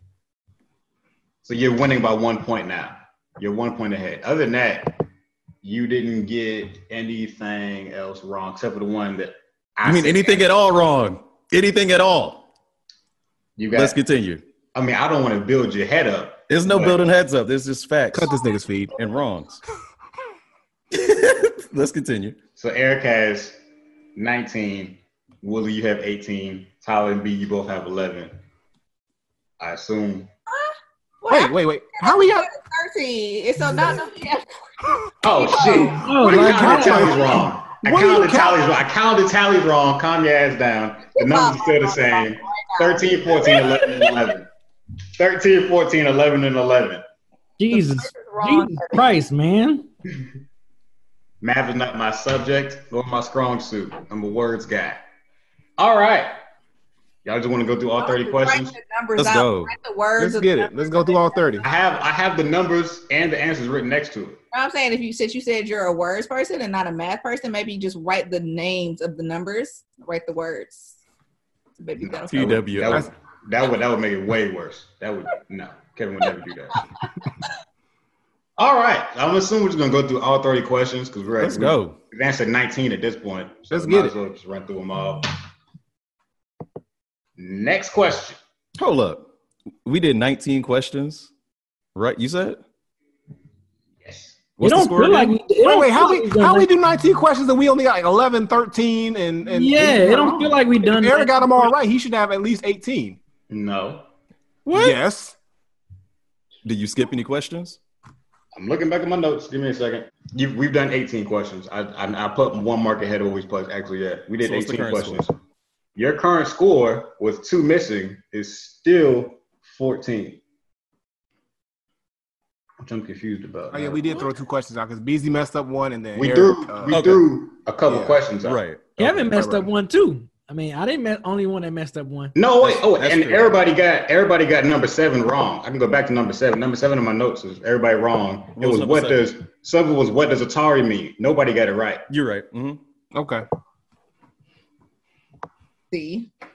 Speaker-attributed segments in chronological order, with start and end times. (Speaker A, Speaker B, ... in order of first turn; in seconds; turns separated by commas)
Speaker A: 1.4-5.0, Speaker A: 5.6-10.5, Speaker B: 9.8-12.5, Speaker A: 13.6-14.0, Speaker B: 13.7-14.4, Speaker A: 14.7-17.0, Speaker B: 16.5-18.3, Speaker C: 18.1-18.9, Speaker B: 18.9-19.6, Speaker B: 20.9-22.4, Speaker A: 22.6-23.6, Speaker A: 24.2-28.3, Speaker A: 29.6-30.3, Speaker D: 30.5-34.5, Speaker C: 31.3-32.5, Speaker A: 35.2-44.5, Speaker D: 35.2-36.1, Speaker E: 36.0-37.3, Speaker C: 36.2-38.7, Speaker D: 41.2-44.2, Speaker A: 45.2-47.0, Speaker E: 47.6-49.9, Speaker D: 47.7-49.0, Speaker A: 51.4-55.0, Speaker A: 55.8-56.3, Speaker A: 57.2-58.8, Speaker D: 58.0-61.6, Speaker B: 59.2-59.7, Speaker C: 60.2-61.7, Speaker A: 61.6-64.4, Speaker D: 64.5-71.0, Speaker D: 71.8-72.5, Speaker A: 72.0-76.8, Speaker B: 72.3-73.1, Speaker A: 78.6-85.4, Speaker B: 81.4-82.0, Speaker C: 83.7-84.1, Speaker A: 87.4-88.4, Speaker B: 88.8-89.3, Speaker B: 89.8-91.3, Speaker B: 92.0-92.6, Speaker A: 94.0-94.5, Speaker B: 94.6-95.4, Speaker E: 94.6-96.7, Speaker C: 95.6-100.3, Speaker E: 99.5-101.7, Speaker A: 99.8-100.6, Speaker C: 100.8-103.2, Speaker A: 103.5-104.1, Speaker B: 104.7-105.0, Speaker C: 104.7-105.4, Speaker B: 106.6-107.8, Speaker A: 108.5-115.4, Speaker B: 114.4-115.2, Speaker A: 116.0-120.4, Speaker A: 122.8-124.2, Speaker C: 123.7-127.2, Speaker A: 126.2-128.6, Speaker B: 126.9-127.2, Speaker C: 127.9-128.2, Speaker B: 128.4-129.3, Speaker E: 129.0-132.3, Speaker C: 129.2-129.7, Speaker A: 132.3-142.1, Speaker B: 132.6-133.6, Speaker B: 138.6-139.3, Speaker B: 142.1-142.8, Speaker C: 143.1-143.5, Speaker D: 145.9-146.3